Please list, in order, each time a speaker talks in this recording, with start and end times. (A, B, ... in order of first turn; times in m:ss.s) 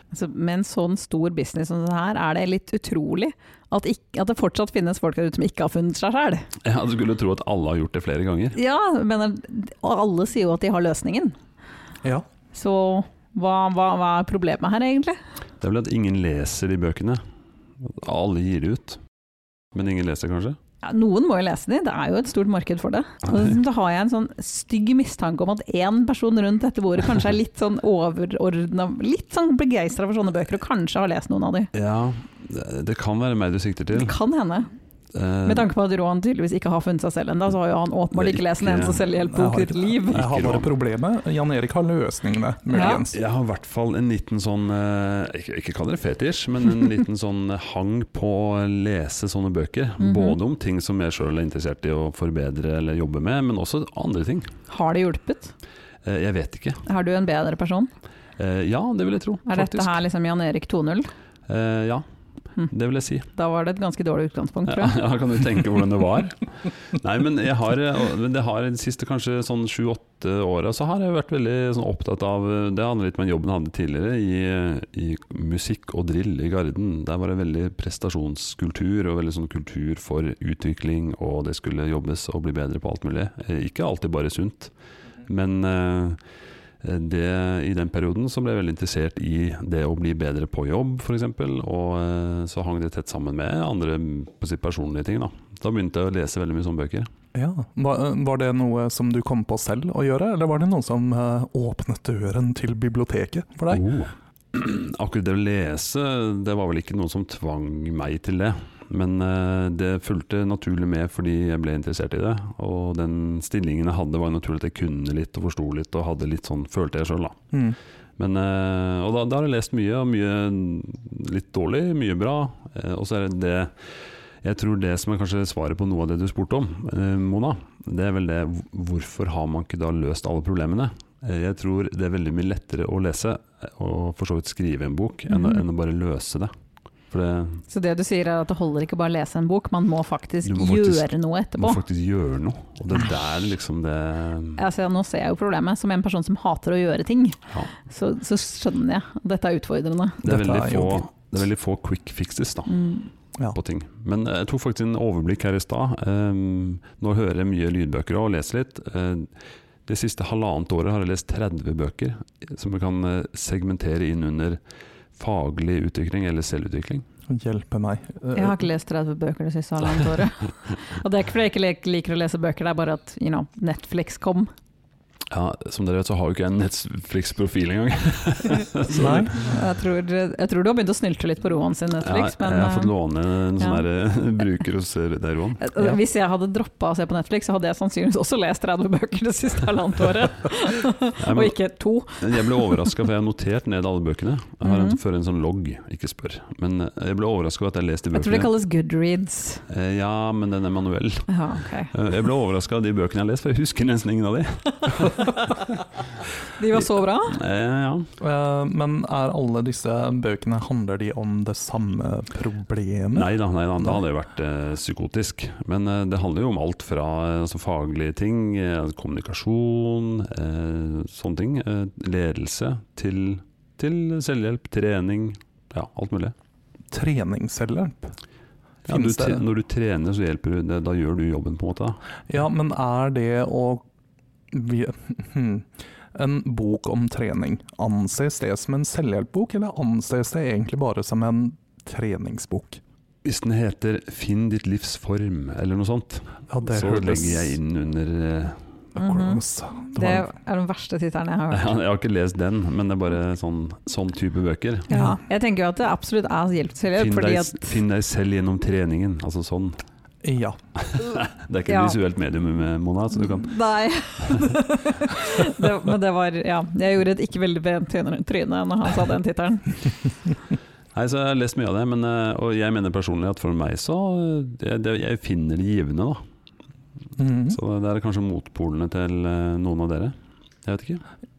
0:00.1-0:06.4 A
0:06.6-0:08.6 B
0:08.5-0:11.3 A
0:12.5-0:15.2 A
0:15.6-0:17.2 B
0:17.8-0:19.0 B
0:19.7-0:20.6 B
0:20.8-0:31.7 A
0:31.7-0:34.2 B
0:33.9-0:34.7 A
0:35.1-0:35.7 B
0:35.4-0:40.2 A
0:38.1-0:39.1 B
0:39.3-0:43.2 C
0:40.1-0:40.7 B
0:42.7-0:43.0 A
0:43.0-0:54.5 B
0:50.0-0:50.4 A
0:54.7-0:55.5 A
0:56.0-0:56.8 B
0:56.8-0:57.9 A
0:58.4-1:00.0 B
0:59.5-1:01.1 A
1:01.5-1:02.0 B
1:02.7-1:03.3 B
1:03.3-1:05.0 A
1:04.7-1:24.7 B
1:25.3-1:26.2 B
1:26.8-1:37.1 B
1:37.3-1:43.8 C
1:43.7-1:57.4 B
1:57.5-1:57.8 C
1:58.2-2:16.5 B
2:15.3-2:15.6 A
2:17.1-2:17.6 B
2:17.7-2:21.8 A
2:20.4-2:24.6 B
2:24.6-2:30.2 A
2:30.2-2:31.0 C
2:30.2-2:32.7 B
2:32.7-2:33.1 A
2:33.5-2:39.3 B
2:39.9-2:44.6 B
2:45.1-2:47.0 B
2:47.3-2:48.6 C
2:48.3-2:54.5 A
2:55.3-2:59.5 B
2:58.9-2:59.4 C
2:59.4-3:02.9 A
3:02.0-3:05.6 B
3:05.6-3:12.9 A
3:11.2-3:11.6 B
3:12.2-3:18.5 B
3:14.6-3:15.0 A
3:18.1-3:19.6 A
3:19.7-3:21.3 B
3:21.3-3:21.9 A
3:21.9-3:25.8 B
3:25.0-3:25.4 A
3:26.6-3:27.4 A
3:26.7-3:28.1 B
3:28.2-3:34.0 C
3:33.1-3:46.3 B
3:46.9-3:48.1 C
3:48.9-3:52.0 B
3:48.9-3:49.4 C
3:52.3-3:53.8 C
3:54.5-4:02.8 C
4:03.2-4:08.6 B
4:06.5-4:07.6 C
4:08.9-4:10.3 C
4:09.0-4:09.4 A
4:10.0-4:11.8 A
4:11.5-4:14.9 B
4:14.9-4:17.8 A
4:14.9-4:15.2 C
4:16.9-4:19.8 B
4:20.2-4:20.6 C
4:20.8-4:23.6 B
4:21.7-4:22.0 A
4:23.1-4:29.8 A
4:24.2-4:24.5 B
4:30.9-4:36.2 B
4:37.2-4:37.6 C
4:37.5-4:41.0 B